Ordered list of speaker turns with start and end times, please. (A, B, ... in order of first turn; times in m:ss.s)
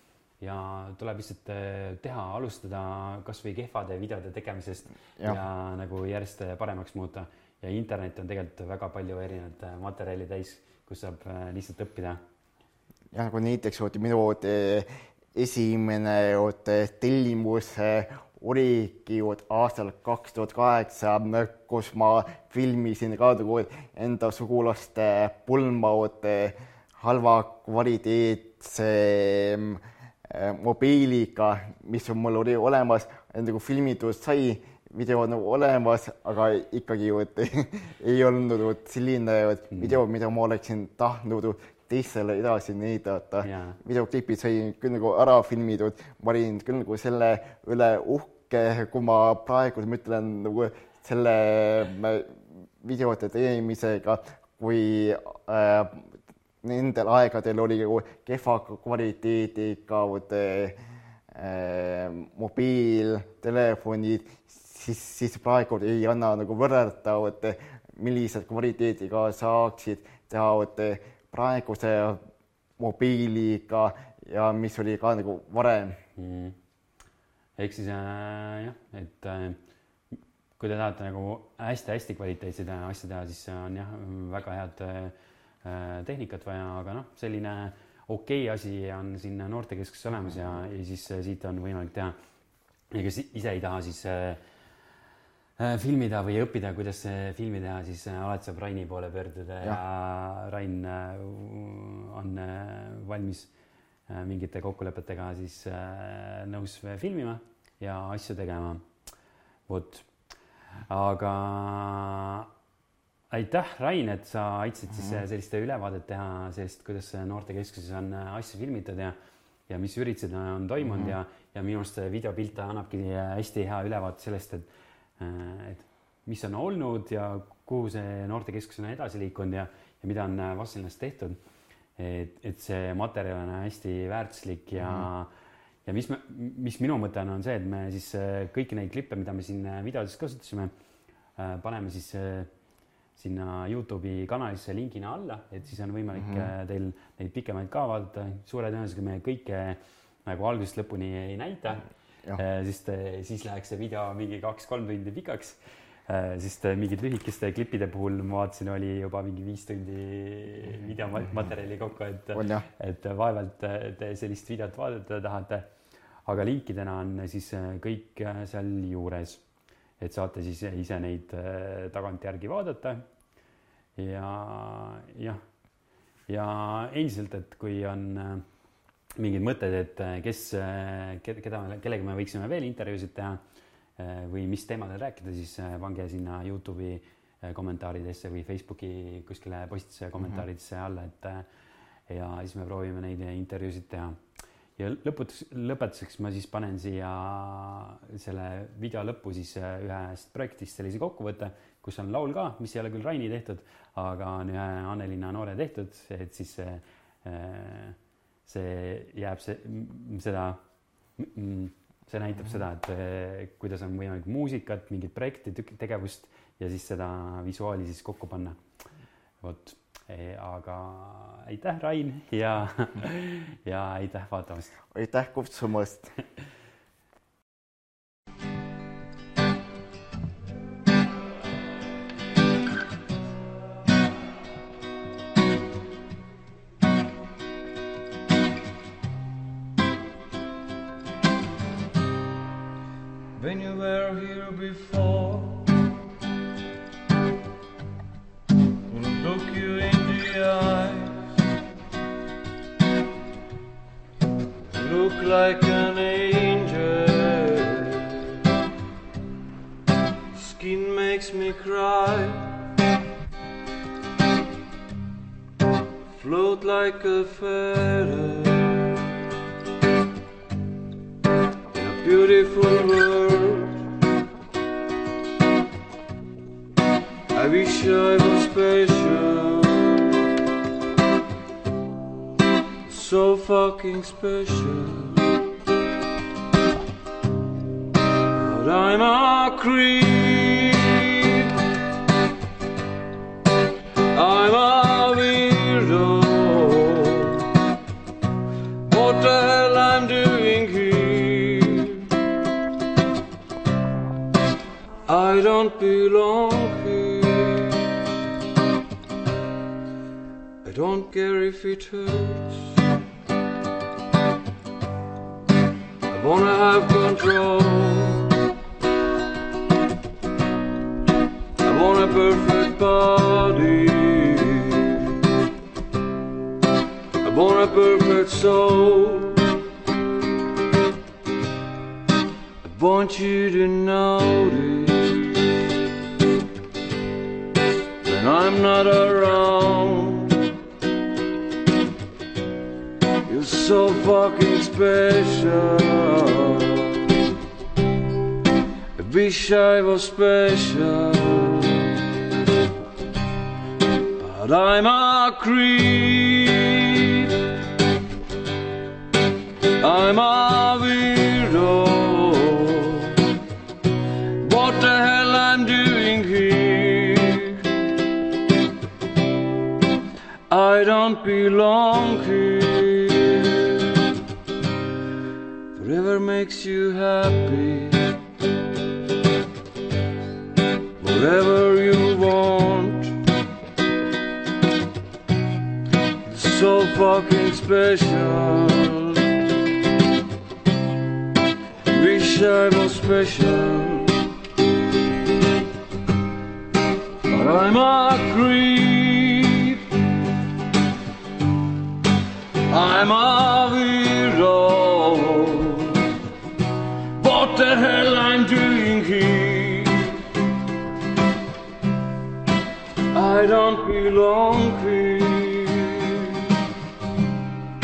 0:00.4-0:12.2 A
0:13.1-0:56.0 B
0:39.7-0:40.0 A
0:43.4-0:43.8 A
0:56.6-1:00.8 B
1:01.3-1:12.2 B
1:12.8-1:16.0 B
1:16.2-1:16.6 A
1:17.6-1:19.6 A
1:20.6-1:32.2 A
1:32.9-1:34.4 A
1:35.6-1:43.5 A
1:44.1-1:48.8 A
1:49.7-1:50.1 A
1:50.9-1:52.5 A
1:53.3-1:59.1 A
1:59.7-2:11.4 A
2:00.8-2:01.2 B
2:12.0-2:15.3 A
2:14.8-2:15.1 B
2:15.8-2:20.7 A
2:21.4-2:22.5 A
2:23.2-2:45.7 A
2:26.2-2:26.5 B
2:42.3-2:42.7 B
2:46.2-2:49.4 A
2:50.0-2:53.0 A
2:54.0-2:55.4 A
2:56.3-2:58.5 A
2:59.1-3:03.4 A
3:04.0-3:11.5 A
3:10.2-3:10.4 B
3:12.1-3:14.2 A
3:14.8-3:30.6 A
3:31.2-3:38.6 A
3:39.4-3:44.8 A
3:44.9-3:46.1 B
4:03.4-4:05.8 C
4:08.9-4:11.4 C
4:14.7-4:18.4 C
4:20.3-4:22.6 C
4:26.2-4:29.2 C
4:31.7-4:33.8 C
4:37.3-4:40.1 C
4:42.8-4:45.4 C
4:48.3-4:51.6 C
4:54.1-4:57.5 C
4:58.8-5:02.2 C
5:05.1-5:07.9 C
5:10.6-5:12.8 C
5:16.1-5:18.4 C
5:21.6-5:25.1 C
5:27.2-5:29.5 C
5:32.6-5:35.5 C
5:38.0-5:40.5 C
5:43.2-5:47.1 C
5:49.0-5:52.1 C
5:54.2-5:57.4 C
5:59.8-6:03.3 C
6:04.2-6:07.7 C
6:10.5-6:14.0 C
6:15.7-6:18.1 C
6:21.0-6:23.2 C
6:26.2-6:29.4 C
6:31.9-6:34.2 C
6:37.3-6:40.0 C
6:42.7-6:46.1 C
6:47.1-6:50.2 C
6:53.1-6:56.6 C